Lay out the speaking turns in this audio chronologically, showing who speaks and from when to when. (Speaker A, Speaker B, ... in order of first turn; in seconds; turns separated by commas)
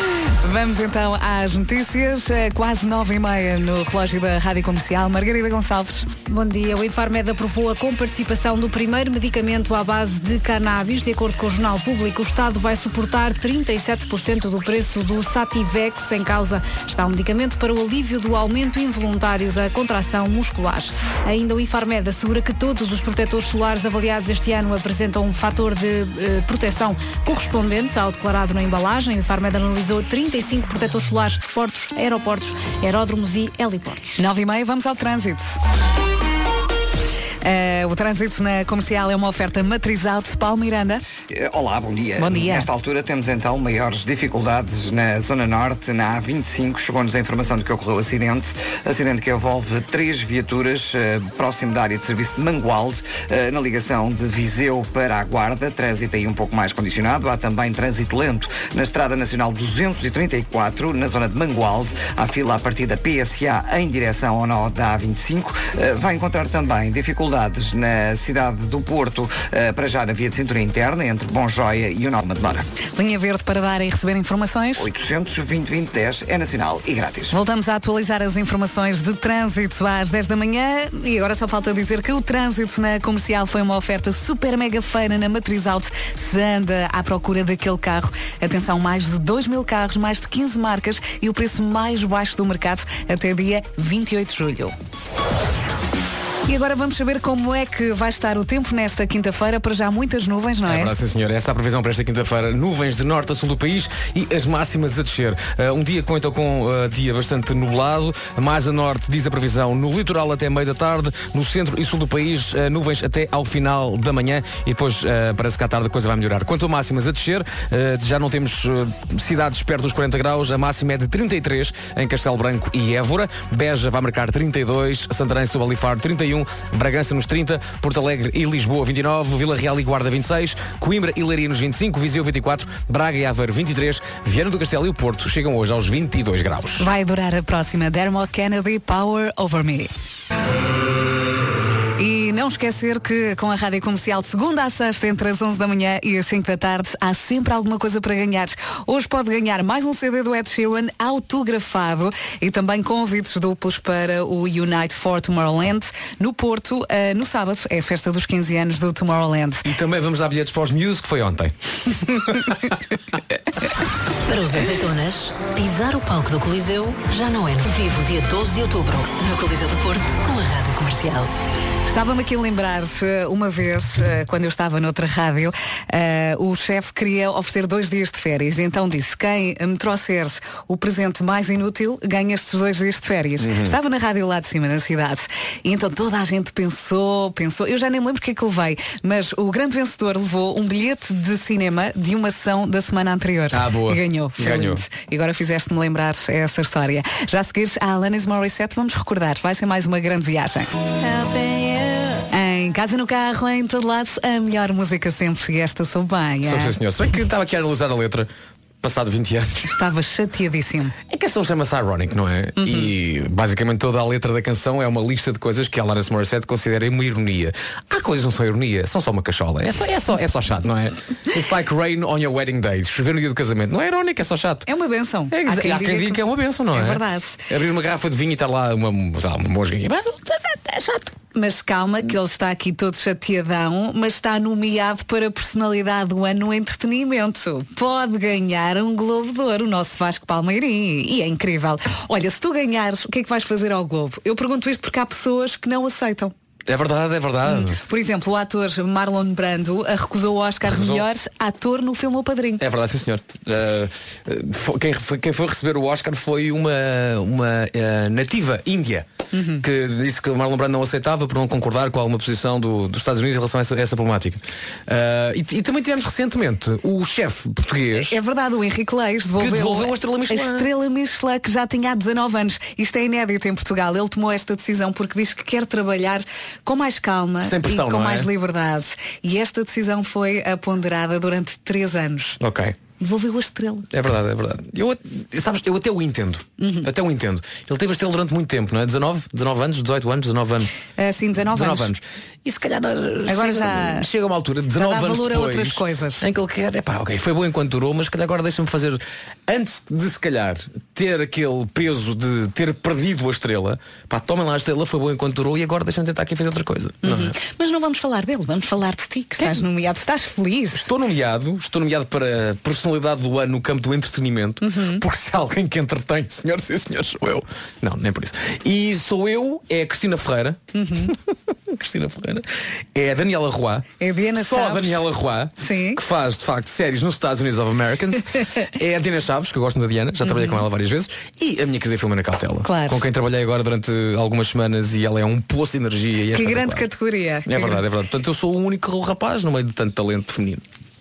Speaker A: 0.4-6.1, Speaker B: 6.3-34.2, Speaker A: 34.2-35.5, Speaker A: 37.4-41.0, Speaker C: 41.3-72.7, Speaker A: 42.2-42.7, Speaker A: 73.0-74.9, Speaker C: 74.8-77.4, Speaker A: 77.3-94.7, Speaker A: 96.5-100.9, Speaker D: 100.6-136.9, Speaker A: 136.8-139.9, Speaker A: 142.0-159.7, Speaker D: 159.7-162.8, Speaker E: 164.2-171.3, Speaker A: 171.9-200.7, Speaker D: 183.4-183.8, Speaker D: 193.5-194.8, Speaker A: 202.3-206.8, Speaker D: 206.4-208.3, Speaker D: 208.8-209.7, Speaker A: 209.6-210.9, Speaker D: 211.1-224.7, Speaker A: 212.6-212.9, Speaker A: 224.7-227.4, Speaker D: 225.3-231.2, Speaker A: 231.3-246.3, Speaker D: 246.7-247.8, Speaker A: 247.5-252.6, Speaker D: 250.7-251.1, Speaker D: 252.6-259.1, Speaker A: 259.3-259.6, Speaker D: 259.6-268.1, Speaker A: 268.0-282.4, Speaker D: 269.4-270.7, Speaker D: 277.4-278.3, Speaker D: 282.4-282.8, Speaker A: 283.0-283.9, Speaker D: 283.9-290.7, Speaker A: 286.6-286.9, Speaker A: 291.0-291.9, Speaker D: 291.5-307.3, Speaker A: 293.3-294.1, Speaker A: 294.8-296.2, Speaker A: 307.0-310.9, Speaker D: 309.4-309.6, Speaker D: 310.7-336.8, Speaker A: 314.6-315.0, Speaker A: 320.7-321.1, Speaker A: 324.0-325.1, Speaker A: 325.6-326.0, Speaker A: 330.2-330.6, Speaker A: 332.6-333.0, Speaker A: 336.3-337.8, Speaker D: 337.5-340.6